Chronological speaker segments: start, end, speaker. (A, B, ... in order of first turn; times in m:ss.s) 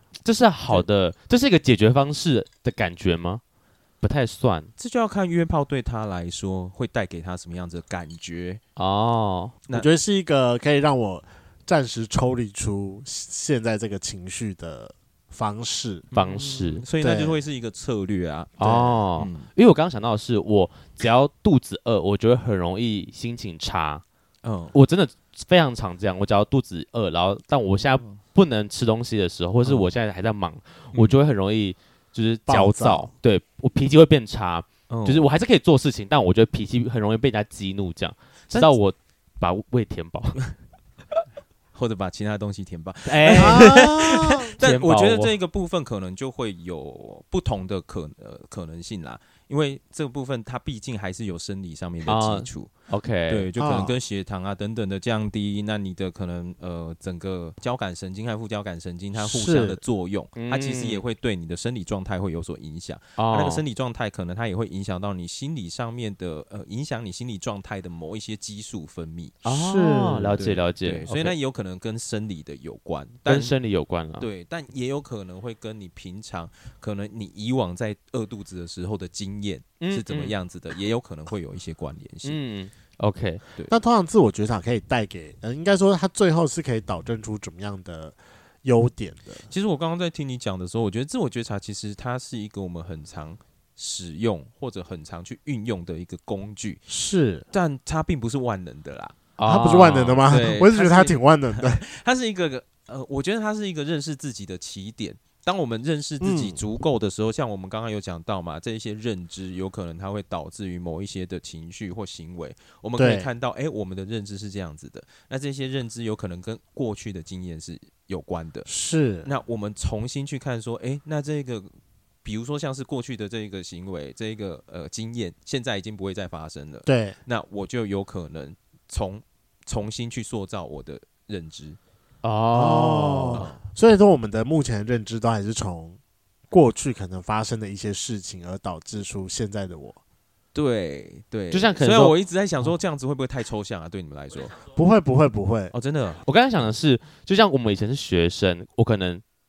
0:00.2-0:03.4 A
0:04.0-0:04.7 A
0:04.8-0:08.6 B
0:08.8-0:09.6 A
0:09.7-0:16.1 C
0:16.1-0:19.5 B
0:16.1-0:16.8 A
0:17.0-0:17.4 C
0:18.6-0:24.0 A
0:18.6-0:19.0 C
0:24.4-0:24.8 B
0:24.7-0:40.4 A
0:29.6-0:29.9 B
0:30.9-0:31.2 B
0:32.5-0:33.1 C
0:34.9-0:35.3 B
0:41.7-0:52.7 B
0:43.0-0:43.9 A
0:43.4-0:44.5 C
0:44.6-0:45.4 A
0:52.1-0:53.5 A
0:53.3-1:09.4 B
0:53.6-0:53.9 C
0:59.2-0:59.8 C
1:00.4-1:01.0 A
1:03.2-1:03.6 A
1:09.4-1:11.3 A
1:09.5-1:10.4 C
1:10.4-1:13.5 B
1:13.3-1:14.3 A
1:14.2-1:22.4 B
1:19.8-1:20.4 A
1:22.2-1:23.4 A
1:23.7-1:29.5 C
1:29.5-1:36.8 B
1:36.9-1:37.4 C
1:37.5-1:39.2 B
1:39.4-1:40.5 A
1:39.4-1:41.8 C
1:40.2-1:58.7 B
1:46.2-1:46.6 C
1:53.0-1:53.3 C
1:58.7-1:59.3 C
1:59.2-2:01.7 B
2:02.2-2:11.8 B
2:06.9-2:07.2 C
2:12.2-2:13.4 A
2:12.5-2:16.0 C
2:13.3-2:13.6 B
2:16.5-2:20.0 C
2:20.5-2:24.6 B
2:21.5-2:22.2 A
2:24.7-2:25.7 C
2:25.7-2:26.2 B
2:26.2-2:29.2 A